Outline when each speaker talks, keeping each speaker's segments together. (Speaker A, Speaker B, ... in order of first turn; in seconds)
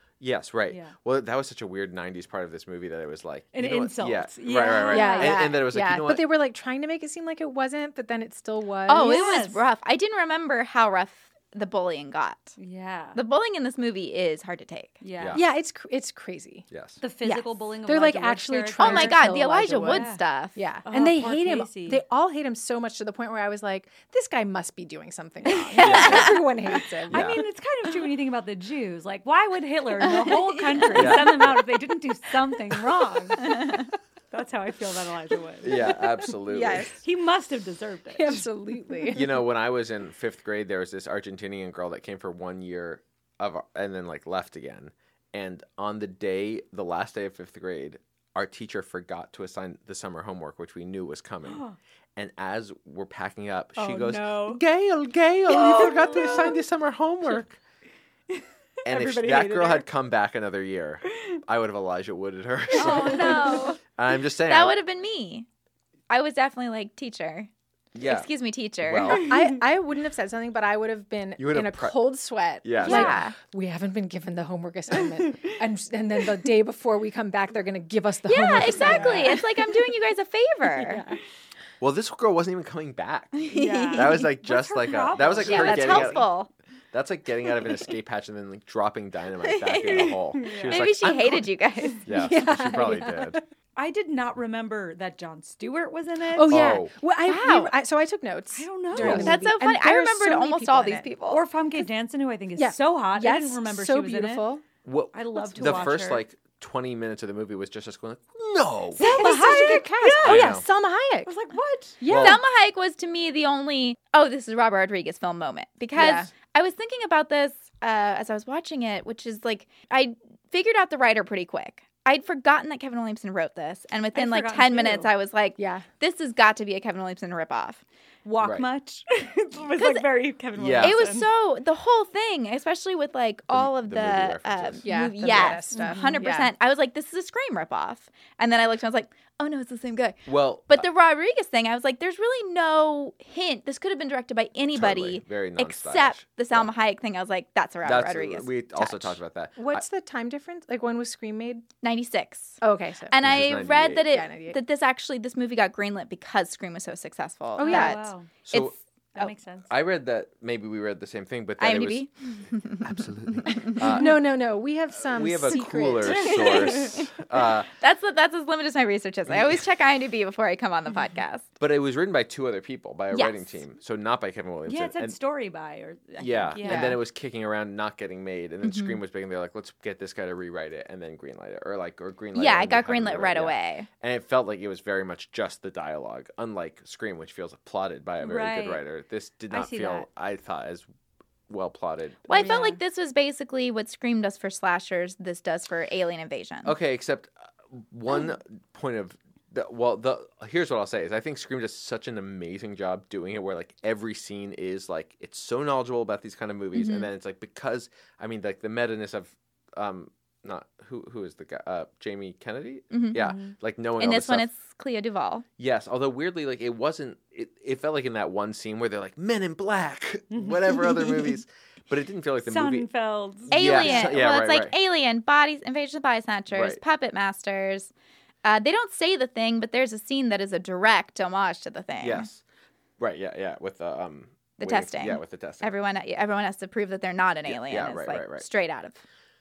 Speaker A: 0.2-6.3, 15.2-15.4, 16.7-17.0, 25.8-26.4, 27.1-27.4, 30.9-31.6, 35.6-36.9, 39.1-51.6, 52.1-57.6, 58.8-64.8, 67.9-68.3, 68.8-69.3, 71.4-72.1, 72.6-73.2, 81.8-86.3, 86.9-91.5, 92.0-93.4, 96.5-96.9, 99.0-99.3, 104.8-109.0, 110.2-110.6, 112.0-112.4, 116.0-116.2, 128.4-128.7, 130.6-131.0, 133.5-135.6, 140.2-140.9, 144.7-146.7, 147.8-149.8, 153.2-154.1, 158.4-158.7, 159.7-162.0, 162.8-164.3, 165.1-167.7, 169.3-169.6, 171.6-175.2, 176.2-190.9, 191.5-192.5, 196.6-214.5, 215.6-222.9, 223.5-224.7, 226.5-226.8, 232.0-232.4, 233.0-235.7, 237.4-238.5
Speaker B: 3.5-5.5, 8.9-9.6, 12.6-13.2, 15.0-15.4, 17.0-20.2, 20.9-22.0, 27.0-36.0, 37.0-38.5, 51.5-51.8, 53.8-54.6, 55.5-56.6, 58.3-59.9, 62.9-63.4, 78.8-79.4, 80.8-81.2, 83.5-86.2, 90.4-90.9, 93.8-96.8, 98.5-99.4, 101.3-104.5, 105.1-106.2, 109.0-110.6, 111.2-112.0, 124.1-125.1, 128.2-131.3, 135.7-136.2, 157.6-158.3, 159.1-159.7, 174.7-177.0, 188.2-188.8, 189.5-190.1, 192.3-192.8, 213.2-213.5, 220.3-221.3, 222.4-224.1
Speaker C: 4.9-9.3, 15.3-16.7, 17.2-27.4, 36.5-37.0, 38.1-39.4, 69.1-79.4, 92.2-93.4, 96.3-101.1, 102.6-104.6, 109.0-111.3, 112.0-112.4, 116.0-116.3, 125.6-125.8, 134.8-136.5, 149.6-151.7, 152.6-153.4, 154.0-154.6, 157.6-158.0, 163.8-166.5, 176.6-176.9
Speaker D: 8.8-12.5, 13.1-15.0, 18.8-20.6, 25.7-26.3, 30.2-30.6, 62.7-63.8, 64.4-65.5, 66.1-67.5, 68.0-69.3, 72.8-73.3, 78.2-81.0, 83.4-84.3, 85.4-86.5, 89.5-92.3, 97.2-97.7, 99.0-101.4, 112.1-127.8, 129.8-130.1, 130.8-149.1, 151.8-159.3, 161.6-163.9, 166.4-167.0, 167.7-171.5, 173.1-173.4, 178.6-178.9, 182.3-183.9, 192.3-196.7, 206.7-207.1, 212.9-213.3, 214.0-215.4, 223.5-227.9, 228.4-232.3, 234.6-239.0